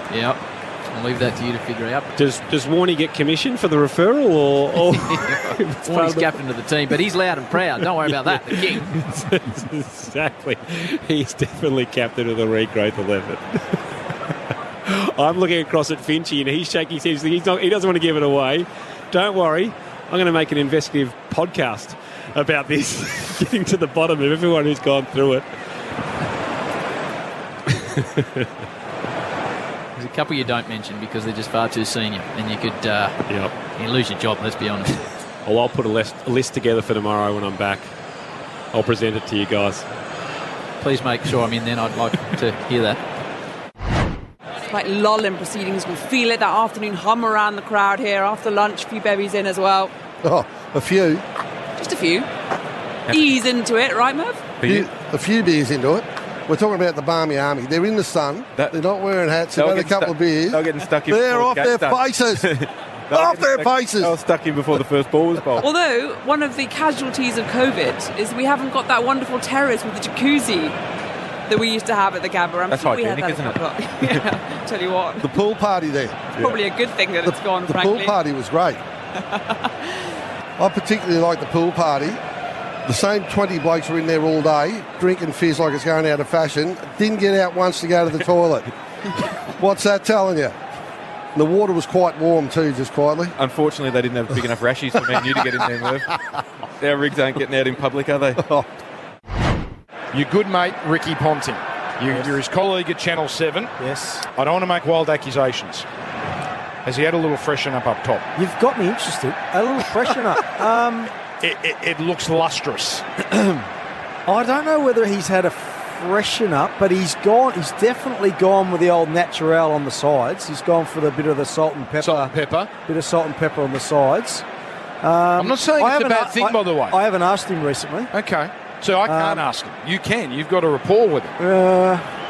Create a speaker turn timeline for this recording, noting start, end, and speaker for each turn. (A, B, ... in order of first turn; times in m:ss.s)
0:00.1-0:00.4 A
0:00.9-0:02.1 A
0:02.2-0:06.3 B
0:05.1-0:09.0 A
0:07.8-0:13.8 B
0:14.8-0:25.4 B
0:27.7-0:28.5 B
0:30.0-0:33.2 A
0:33.3-0:33.5 B
0:33.8-0:35.0 A
0:35.4-0:37.9 B
0:38.7-0:39.8 B
0:40.8-0:43.0 A
0:44.6-0:49.9 C
0:50.2-0:51.2 D
0:51.8-0:52.3 C
0:53.1-0:53.3 E
0:53.1-0:54.5 C
0:54.6-0:54.9 E
0:54.6-1:02.4 D
0:58.5-0:58.8 E
0:59.6-1:05.7 E
1:03.1-1:04.1 D
1:05.6-1:10.8 C
1:11.5-1:15.3 C
1:12.7-1:14.2 E
1:15.2-1:16.4 D
1:16.4-1:18.1 C
1:17.2-1:18.8 D
1:19.4-1:19.7 C
1:20.6-1:22.2 D
1:22.8-1:28.7 D
1:29.6-1:30.5 D
1:31.3-1:33.3 D
1:33.4-1:36.1 E
1:36.8-1:38.5 E
1:40.1-1:43.7 F
1:42.1-1:42.4 G
1:43.8-1:44.3 G
1:44.3-1:45.8 F
1:46.8-1:48.2 F
1:48.3-1:51.1 G
1:51.4-1:53.1 F
1:53.2-1:53.6 G
1:54.3-2:02.3 G
2:02.0-2:02.7 F
2:02.8-2:04.4 G
2:05.0-2:08.1 G
2:05.4-2:07.0 F
2:08.1-2:11.3 F
2:09.0-2:09.5 G
2:11.4-2:12.1 G